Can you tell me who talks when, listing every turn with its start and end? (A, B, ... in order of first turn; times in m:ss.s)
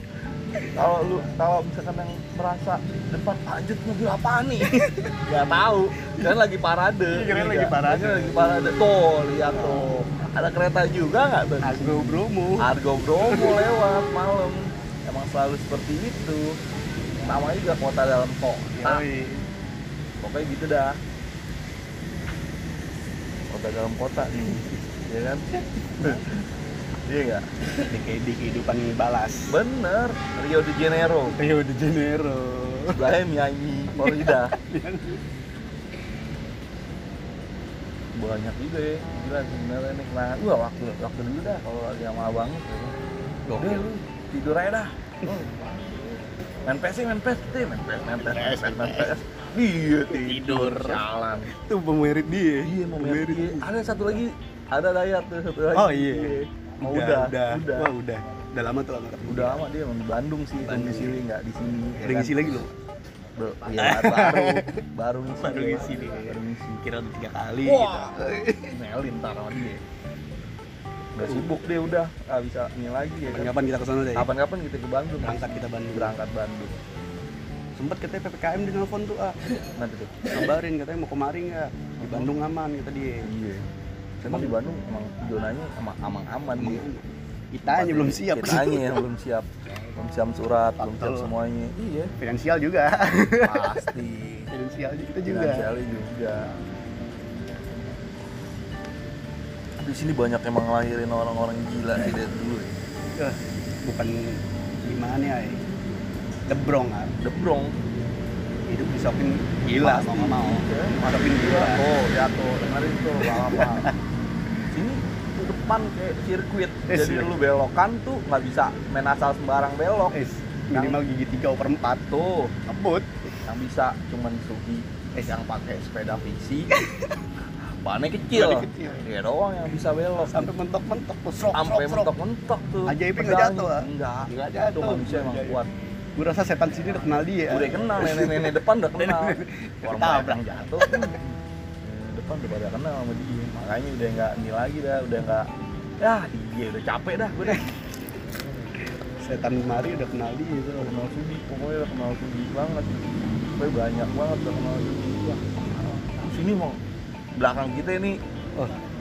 0:00.7-0:16.6 A
0:04.7-0:05.1 B
0:07.1-0:08.8 B
0:09.4-0:10.0 B
0:11.6-0:13.7 B
0:17.2-0:19.1 A
0:18.8-0:19.5 B
0:20.2-0:21.0 A
0:23.5-0:26.4 A
0:27.1-0:27.8 A
0:27.9-0:29.5 B
0:29.5-0:31.4 A
0:31.4-0:33.0 B
0:32.9-0:34.6 A
0:34.0-0:35.2 B
0:38.2-0:43.0 A
0:43.5-0:43.9 B
0:43.5-0:46.1 A
0:46.7-0:51.5 A
0:48.2-0:49.2 B
0:50.1-0:54.1 B
0:52.6-0:57.9 A
0:55.7-0:59.7 B
0:59.3-1:02.6 A
1:00.6-1:01.2 B
1:02.0-1:02.7 B
1:03.4-1:06.8 A
1:03.7-1:04.8 B
1:05.4-1:08.8 B
1:07.6-1:09.8 A
1:11.1-1:13.6 A
1:11.2-1:11.5 B
1:13.2-1:14.3 B
1:14.2-1:16.8 A
1:15.2-1:16.2 B
1:17.8-1:19.4 B
1:19.6-1:20.4 A
1:20.3-1:23.3 B
1:22.0-1:22.3 A
1:23.2-1:23.7 A
1:24.2-1:24.6 B
1:24.2-1:26.8 A
1:26.6-1:29.0 B
1:27.6-1:32.1 A
1:30.8-1:31.3 B
1:32.2-1:33.9 B
1:33.4-1:34.5 A
1:34.5-1:35.7 B
1:35.3-1:36.5 A
1:39.8-1:42.7 A
1:43.2-1:45.6 B
1:46.5-1:47.1 B
1:47.2-1:47.8 A
1:48.7-1:51.8 B
1:49.6-1:53.9 A
1:53.2-1:54.0 B
1:54.7-2:00.2 A
1:56.9-1:57.4 B
2:00.1-2:02.0 B
2:00.7-2:01.0 A
2:02.1-2:02.5 A
2:02.7-2:03.1 B
2:03.5-2:06.8 A
2:06.8-2:07.1 B
2:07.4-2:10.5 A
2:08.3-2:09.0 B
2:10.3-2:12.1 B
2:11.5-2:15.7 A
2:12.9-2:15.6 B
2:16.2-2:21.2 B
2:17.5-2:25.5 A
2:26.0-2:27.7 A
2:27.4-2:27.7 B
2:29.2-2:31.0 B
2:30.8-2:36.8 A
2:37.4-2:38.2 A